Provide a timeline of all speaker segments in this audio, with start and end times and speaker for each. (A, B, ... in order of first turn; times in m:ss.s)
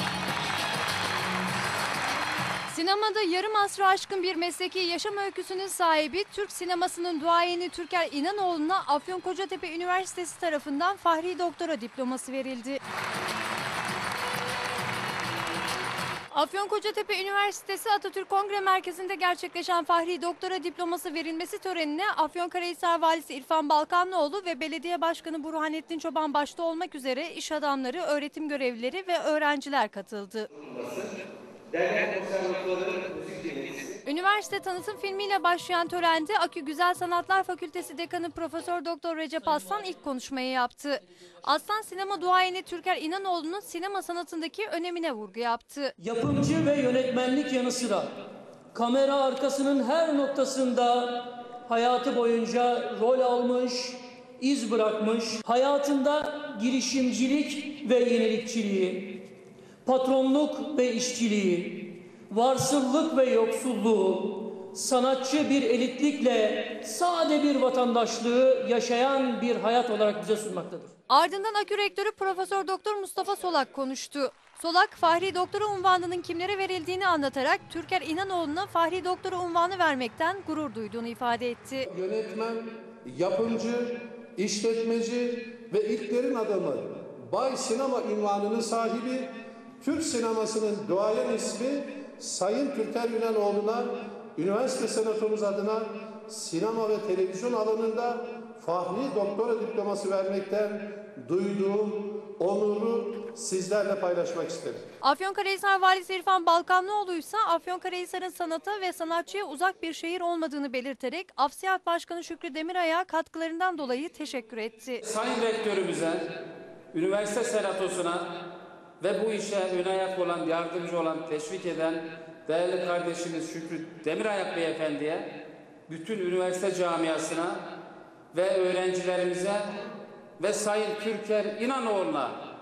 0:02.7-0:12.8 A
0:16.3-0:30.5 A
0:30.6-0:31.1 B
0:31.7-0:34.0 B
0:34.0-0:45.9 A
0:46.0-0:48.2 C
0:48.7-0:59.2 C
0:59.8-1:10.9 C
1:11.1-1:21.8 A
1:21.9-1:44.8 D
1:45.0-1:55.0 A
1:55.0-1:56.3 E
1:56.9-1:58.4 E
1:59.0-2:07.6 E
2:08.3-2:09.7 E
2:10.4-2:12.4 E